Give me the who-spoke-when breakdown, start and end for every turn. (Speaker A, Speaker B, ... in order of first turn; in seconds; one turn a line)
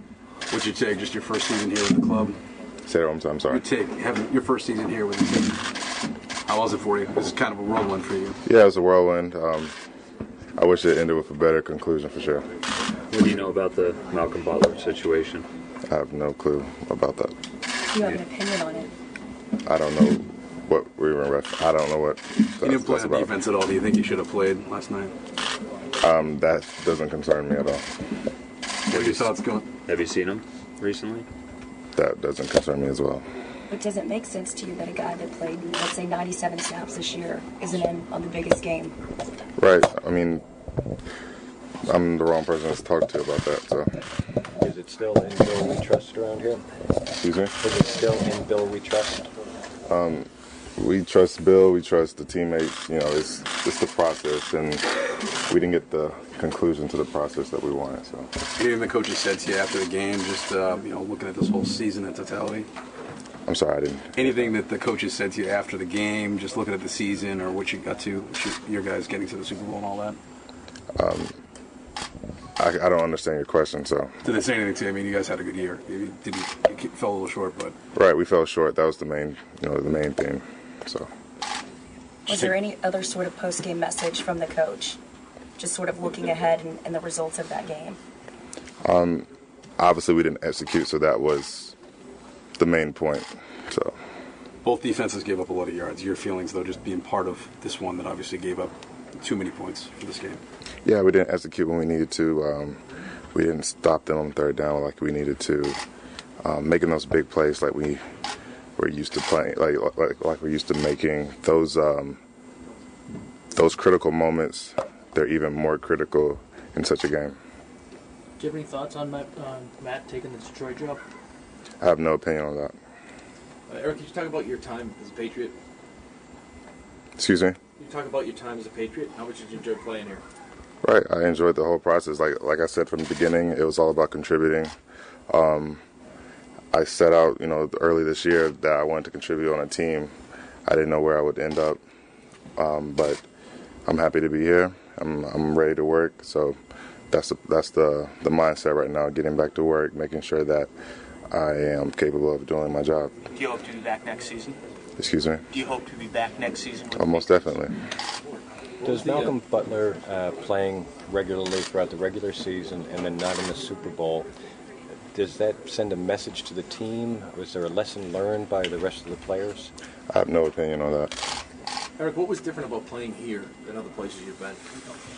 Speaker A: 0.5-2.4
Speaker B: 2.9-3.6
Speaker A: 3.5-5.7
Speaker A: 6.5-8.4
Speaker B: 8.5-9.7
Speaker B: 10.6-12.5
Speaker C: 13.1-15.5
Speaker B: 15.9-17.4
Speaker D: 17.9-18.9
Speaker B: 19.6-23.3
Speaker A: 22.6-25.1
Speaker B: 26.0-27.8
Speaker A: 28.9-29.7
Speaker C: 29.0-29.3
Speaker C: 29.9-31.3
Speaker B: 31.9-33.2
Speaker D: 33.7-39.0
Speaker B: 39.6-40.4
Speaker B: 41.8-44.0
Speaker E: 44.6-46.7
Speaker B: 47.2-47.6
Speaker E: 47.6-49.3
Speaker B: 49.9-58.3
Speaker A: 58.6-62.7
Speaker B: 63.5-64.5
Speaker A: 64.2-70.2
Speaker B: 71.0-71.3
Speaker B: 72.6-74.1
Speaker A: 74.2-77.8
Speaker B: 77.9-81.1
Speaker D: 82.3-85.0
Speaker D: 85.6-88.0
Speaker B: 88.8-89.3
Speaker B: 89.8-91.8
Speaker B: 92.6-94.0
Speaker A: 94.6-100.4
Speaker B: 100.9-102.8
Speaker B: 103.3-105.8
Speaker B: 106.4-108.0
Speaker B: 108.8-112.2
Speaker B: 113.5-117.4
Speaker F: 118.4-121.0
Speaker B: 121.8-122.8
Speaker G: 123.7-125.5
Speaker B: 127.2-127.6
Speaker G: 127.8-130.2
Speaker B: 130.8-134.7
Speaker B: 135.3-135.8
Speaker B: 136.7-140.1
Speaker B: 140.7-141.8
Speaker B: 142.6-143.2
Speaker B: 143.9-146.6
Speaker B: 147.1-150.7
Speaker B: 151.3-153.2
Speaker H: 153.3-154.6
Speaker B: 155.0-155.4
Speaker H: 155.5-157.5
Speaker B: 156.9-157.7
Speaker E: 158.8-164.3
Speaker E: 165.1-169.7
Speaker B: 170.1-171.2
Speaker G: 172.0-174.6